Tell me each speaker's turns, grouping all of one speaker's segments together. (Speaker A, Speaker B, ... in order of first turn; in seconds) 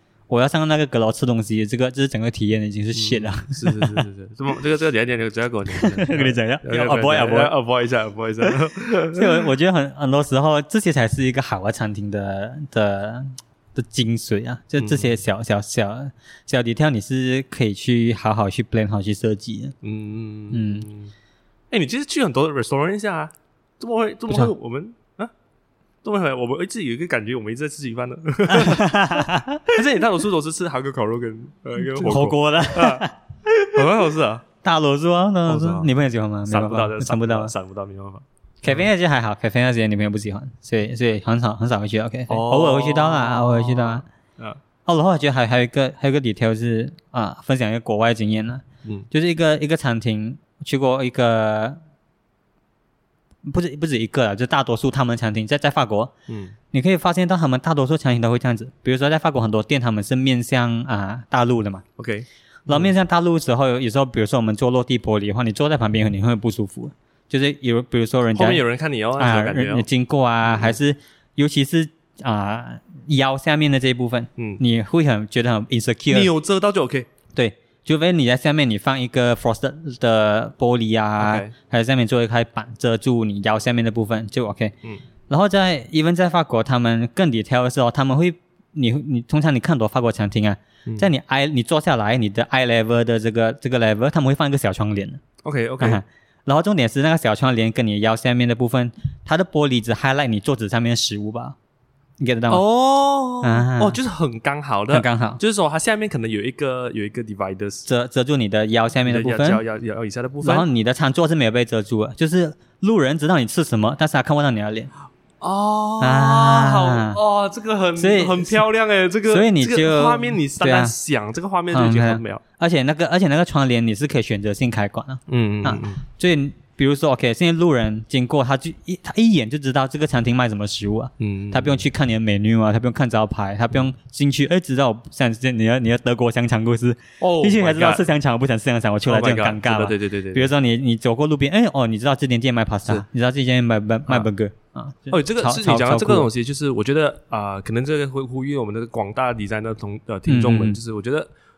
Speaker A: 0.3-4.0, 5.8-7.5, 9.1-19.8, 20.5-20.9, 28.5-29.8, 31.8-33.8, 34.6-37.5, 38.6-44.0, 44.9-51.8, 53.5-56.1, 56.7-61.8, 62.7-68.6, 69.2-76.3, 77.3-84.7, 85.3-95.2, 95.8-101.6, 102.2-102.6, 103.4-104.0, 104.9-105.4, 107.9-109.6, 110.4-114.9, 116.0-117.2, 118.0-118.6, 119.3-120.9, 121.7-146.3, 150.3-150.8
Speaker B: 2.9-9.5, 14.8-15.2, 19.8-21.1, 21.7-25.3, 26.0-28.9, 29.7-33.1, 33.7-34.4, 35.5-35.9, 36.5-38.9, 42.3-44.6, 56.3-56.5, 62.0-62.9, 68.3-69.9, 70.4-70.8, 74.4-74.6, 76.1-77.1, 81.2-81.5, 95.4-96.0, 102.5-107.9, 109.1-110.7, 115.4-122.4, 125.3-126.0, 131.2-131.8, 137.2-138.1, 139.1-140.5, 145.1-151.3